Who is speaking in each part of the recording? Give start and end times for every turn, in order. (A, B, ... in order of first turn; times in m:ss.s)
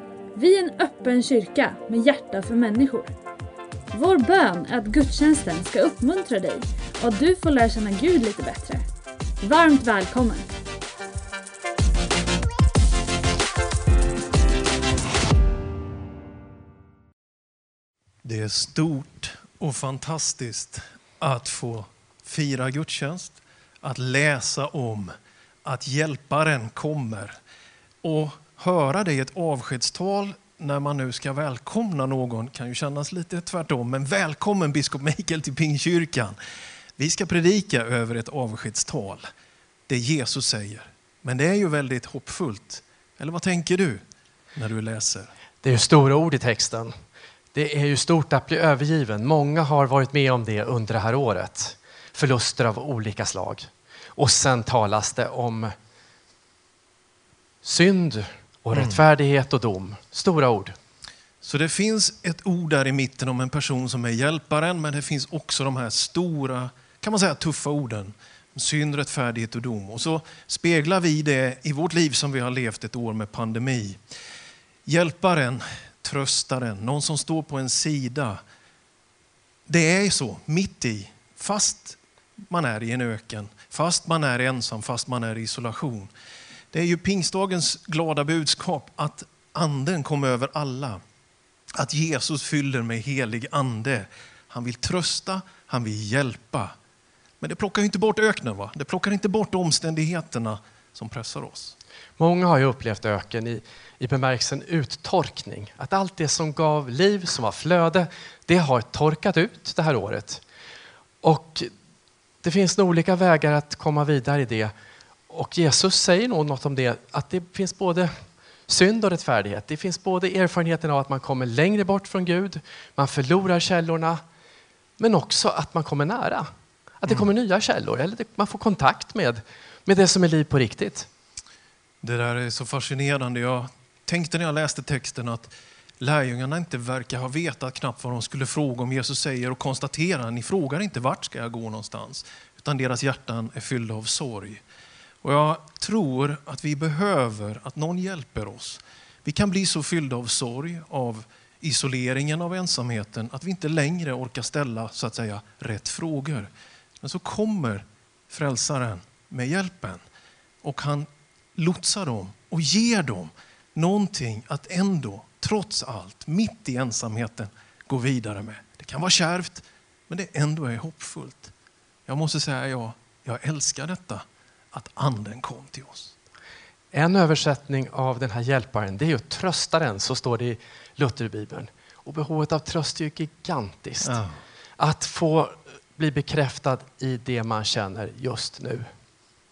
0:00.3-0:03.1 A
0:03.9-0:08.8 A
0:09.4-0:10.5 A
0:18.2-0:27.4 B
0:28.0-0:36.4 B
0:37.0-0:39.3 B
0:39.9-0:44.0 B
0:44.5-0:45.3 B
0:45.6-0:46.9 C
0:47.5-0:55.7 C
0:57.6-1:00.8 C
0:58.7-0:59.0 B
1:01.4-1:14.0 B
1:14.8-1:18.4 B
1:19.7-1:22.0 B
1:22.5-1:26.1 B
1:26.7-1:31.0 B
1:31.8-1:36.7 B
1:37.4-1:41.8 B
1:42.2-1:50.4 C
1:51.2-1:51.7 C
1:52.4-1:54.7 C
1:55.3-1:58.1 C
1:58.7-2:04.2 C
2:05.0-2:06.5 C
2:07.0-2:11.1 C
2:12.0-2:24.6 B
2:25.2-2:40.0 B
2:40.6-2:51.5 B
2:52.0-2:56.1 B
2:56.9-3:04.2 C
3:04.0-3:04.4 B
3:04.8-3:08.9 C